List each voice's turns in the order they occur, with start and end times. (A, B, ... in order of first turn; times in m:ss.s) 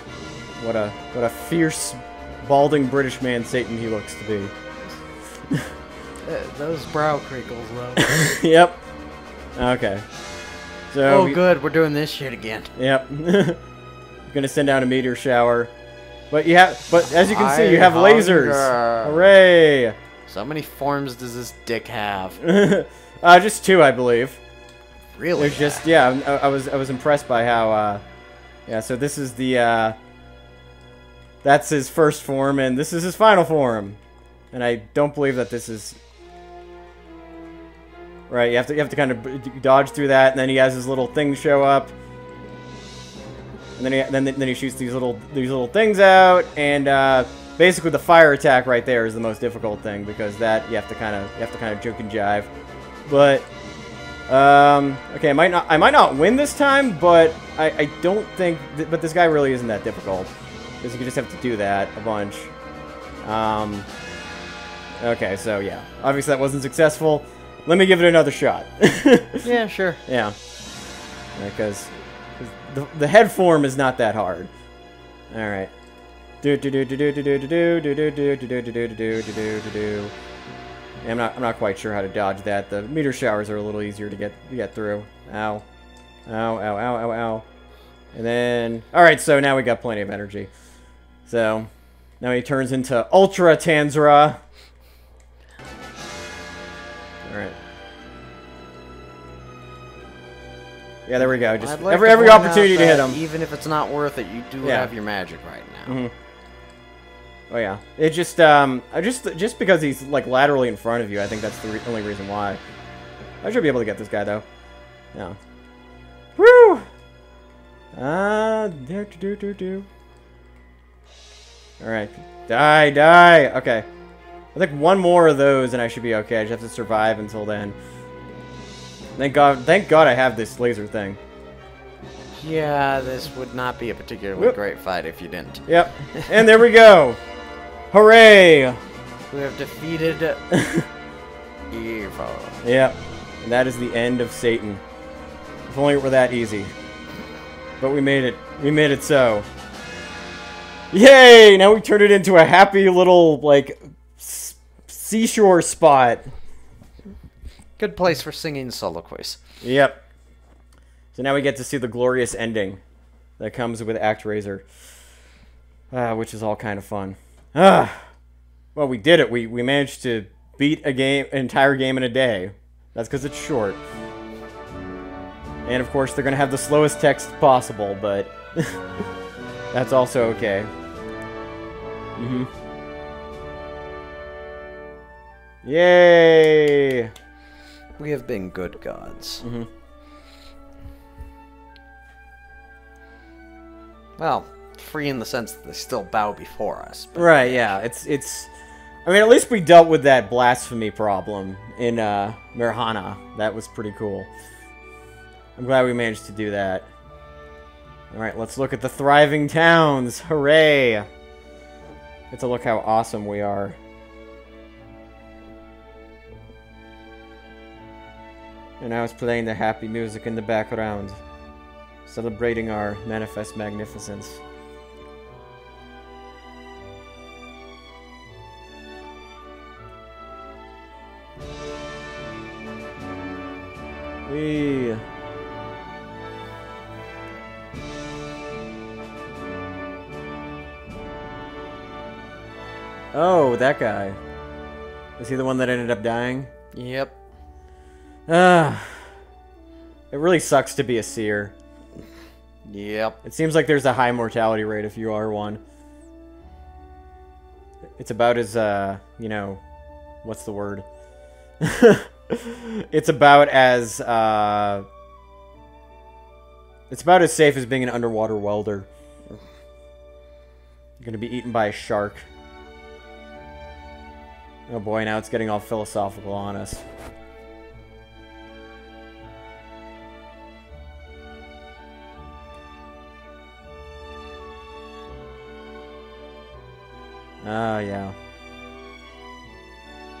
0:00.6-0:04.5 A
0:06.2-0:08.2 B
0:08.0-0:08.8 A
0:09.6-0:10.0 A
0:10.9-0:11.4 A
0:11.0-0:12.7 B
0:12.8-0:13.6 A
0:14.3-0:15.7 A
0:16.3-0:20.0 A
0:17.0-0:19.3 B
0:20.3-0:22.4 B
0:22.4-0:24.4 A
0:25.2-0:25.8 B
0:25.4-0:28.0 A
0:28.7-0:30.0 A
0:31.4-0:34.0 A
0:34.5-0:36.0 A
0:38.3-0:41.9 A
0:43.8-0:52.5 A
0:53.1-0:53.5 A
0:54.3-1:02.5 A
1:03.2-1:03.9 A
1:05.0-1:09.5 A
1:09.4-1:10.0 B
1:10.1-1:10.4 A
1:11.3-1:14.5 A
1:15.3-1:15.7 A
1:16.4-1:20.1 A
1:21.0-1:25.7 A
1:26.3-1:27.4 A
1:28.1-1:30.5 A
1:31.2-1:34.4 A
1:37.2-1:37.6 A
1:41.0-1:43.2 A
1:41.2-1:46.0 B
1:44.6-1:44.9 A
1:45.8-1:46.1 A
1:47.5-1:52.6 A
1:53.4-1:54.4 A
1:56.4-1:56.9 A
1:57.9-1:59.9 A
2:01.8-2:03.9 A
2:04.5-2:07.8 A
2:09.2-2:11.2 A
2:12.4-2:16.2 B
2:15.7-2:17.2 A
2:17.9-2:18.8 A
2:19.3-2:20.4 B
2:20.5-2:20.9 A
2:21.7-2:22.6 B
2:22.6-2:24.8 A
2:25.7-2:26.7 A
2:27.8-2:29.5 A
2:30.9-2:36.3 A
2:37.8-2:39.4 B
2:39.6-2:40.0 A
2:41.1-2:42.8 A
2:43.4-2:44.6 A
2:45.9-2:48.1 A
2:48.7-2:53.8 A
2:55.6-2:58.8 A
2:59.7-3:00.7 A
3:02.2-3:02.5 A
3:05.6-3:07.1 A
3:08.0-3:09.4 B
3:09.4-3:09.7 A
3:14.2-3:17.8 B
3:17.1-3:18.5 A
3:19.0-3:24.3 A
3:25.6-3:26.9 A
3:28.1-3:31.1 A
3:32.3-3:33.8 A
3:38.8-3:41.2 A
3:42.0-3:44.4 A
3:54.2-3:55.0 A
4:03.1-4:04.2 A
4:05.2-4:06.5 A
4:06.7-4:07.1 B
4:08.3-4:09.1 A
4:10.1-4:11.5 A
4:12.6-4:13.2 B
4:13.2-4:15.6 A
4:18.0-4:19.6 A
4:20.2-4:20.8 A
4:21.6-4:24.8 A
4:26.9-4:28.9 A
4:31.0-4:32.2 A
4:34.7-4:36.8 A
4:47.4-4:48.1 A